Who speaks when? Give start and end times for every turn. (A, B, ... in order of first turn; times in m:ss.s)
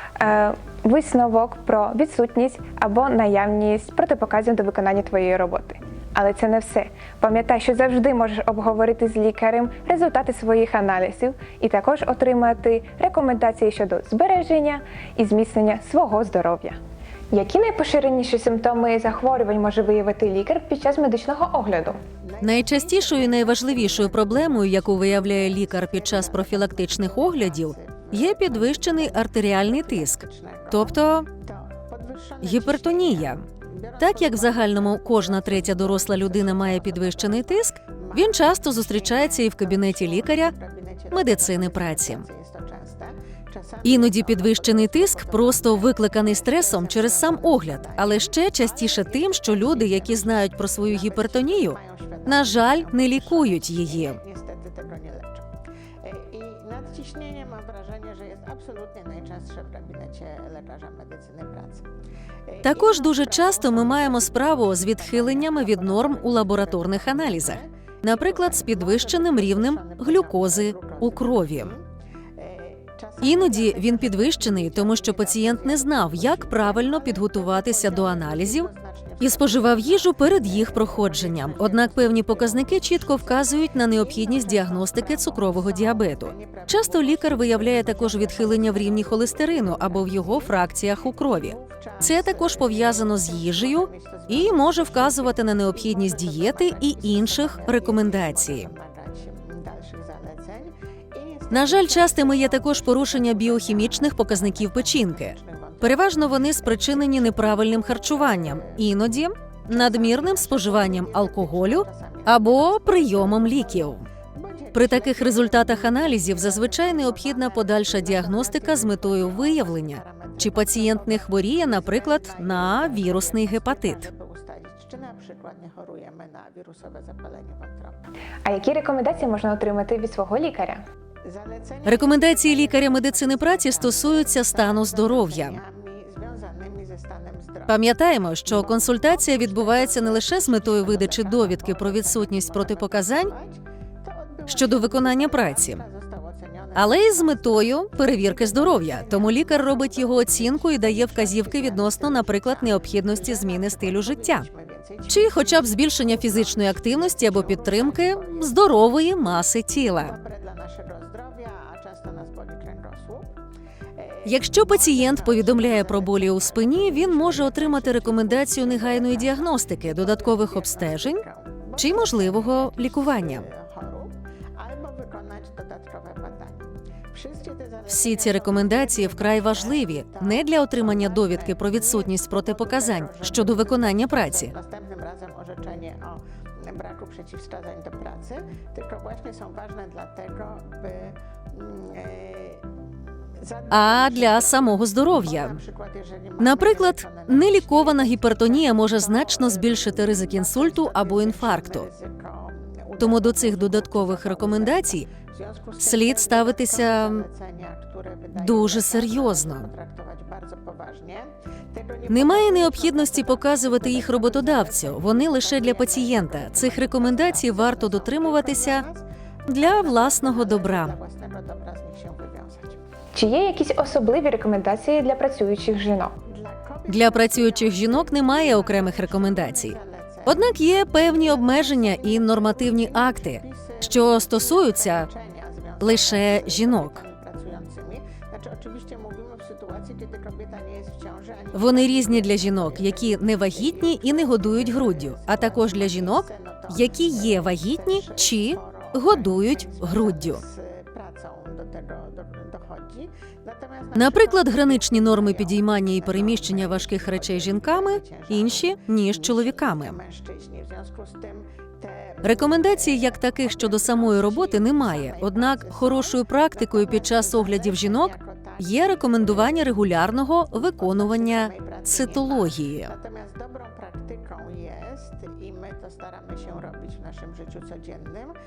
0:00.2-0:16.8 A
0:17.3-0:22.0 A
0:22.4-0:24.5 B
0:22.4-0:31.3 C
0:25.5-0:29.1 B
0:30.5-0:30.8 B
0:32.0-0:33.3 B
0:32.4-0:33.4 C
0:34.0-0:37.4 B
0:34.0-0:40.6 C
0:39.2-0:45.9 B
0:41.1-0:42.3 C
0:43.8-0:54.2 C
0:46.4-0:55.4 B
0:56.1-1:01.8 B
1:02.6-1:11.8 C
1:03.4-1:04.4 B
1:05.0-1:07.4 B
1:08.6-1:11.1 B
1:12.5-1:22.3 B
1:13.2-1:38.7 C
1:24.1-1:30.5 B
1:31.8-1:45.8 B
1:41.5-1:54.1 C
1:48.1-1:48.8 B
1:49.9-1:53.9 B
1:54.5-2:07.9 B
1:54.7-2:04.1 C
2:08.4-2:10.8 A
2:11.4-2:17.7 B
2:11.8-2:15.6 C
2:17.7-2:23.3 C
2:19.0-2:23.6 B
2:24.3-2:27.5 B
2:24.5-2:25.8 C
2:26.8-2:34.5 C
2:28.4-2:35.4 B
2:35.1-2:40.2 C
2:36.1-2:38.5 B
2:40.2-2:43.3 B
2:44.2-2:51.2 C
2:44.8-2:49.4 B
2:50.0-2:51.2 B
2:51.8-2:53.5 C
2:51.8-2:56.6 B
2:57.1-3:00.1 B
2:57.9-3:04.6 C
3:01.0-3:01.3 B
3:02.8-3:03.8 B
3:04.4-3:12.6 B
3:13.5-3:14.5 B
3:13.7-3:15.6 C
3:15.4-3:24.8 B
3:16.4-3:21.9 C
3:23.0-3:25.1 C
3:25.6-3:31.3 B
3:25.8-3:27.3 C
3:28.3-3:29.7 C
3:31.9-3:39.0 B
3:32.1-3:38.9 C
3:39.5-3:41.0 C
3:39.7-3:42.8 B
3:43.1-3:46.1 A
3:46.4-3:50.3 B
3:46.9-3:55.1 C
3:51.2-4:02.4 B
3:55.8-3:57.0 C
4:01.5-4:10.4 C
4:03.7-4:06.7 B
4:07.8-4:14.2 B
4:13.9-4:20.0 C
4:15.3-4:15.6 B
4:16.2-4:18.6 B
4:19.7-4:21.4 B
4:22.2-4:33.0 C
4:23.7-4:26.0 B
4:26.8-4:28.5 B
4:31.0-4:32.3 B
4:32.9-4:38.3 B